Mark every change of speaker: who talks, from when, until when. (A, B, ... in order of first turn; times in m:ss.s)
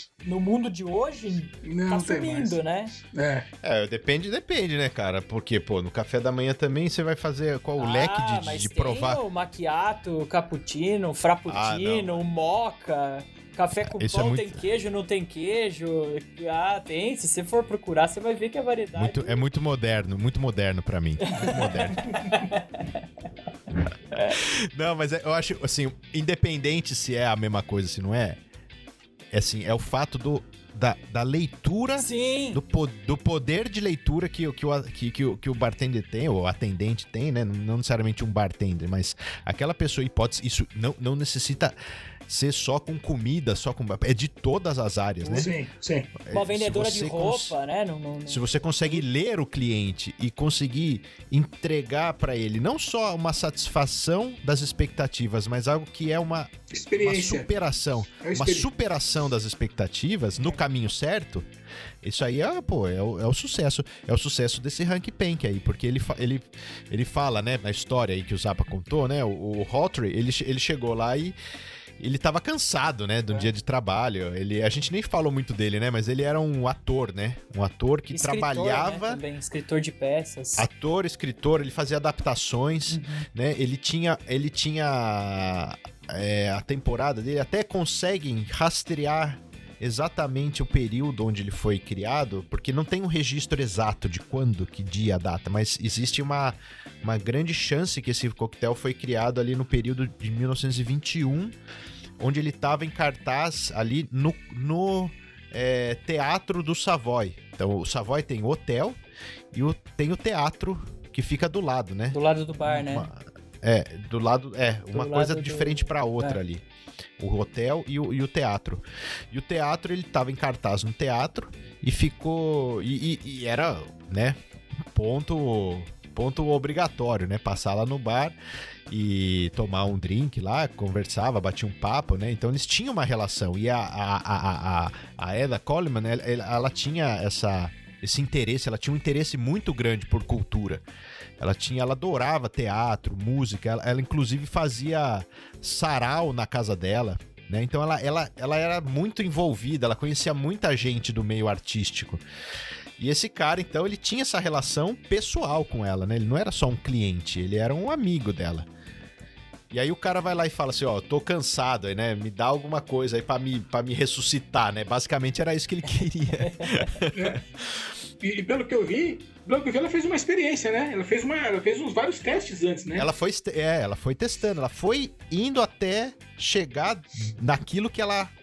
0:00.2-0:02.9 A
0:01.6-0:03.5 B
0:03.6-0:09.2 C
0:07.8-0:19.4 A
0:11.5-0:12.2 C
0:13.9-0:14.6 C
0:19.0-0:22.0 C
0:21.3-0:23.0 A
0:24.1-0:24.4 A
0:24.4-0:28.4 C
0:29.3-0:41.7 C
0:32.0-0:32.6 A
0:42.3-0:45.5 C
0:45.2-0:46.1 B
0:46.2-0:47.5 C
0:46.3-0:49.0 A
0:48.3-1:01.4 C
0:56.7-0:57.5 B
0:58.2-0:58.7 B
1:02.0-1:11.4 C
1:12.0-1:19.2 C
1:18.1-1:20.7 A
1:20.6-1:41.6 C
1:22.9-1:23.3 A
1:42.2-1:49.0 C
1:49.5-1:56.6 C
1:52.1-1:53.1 A
1:54.9-1:56.4 A
1:57.2-2:04.4 C
2:04.9-2:08.4 C
2:08.9-2:20.8 C
2:21.4-2:32.2 C
2:33.0-2:38.7 C
2:39.7-2:47.4 C
2:47.1-2:47.4 B
2:48.2-2:53.1 B
2:52.9-2:58.3 C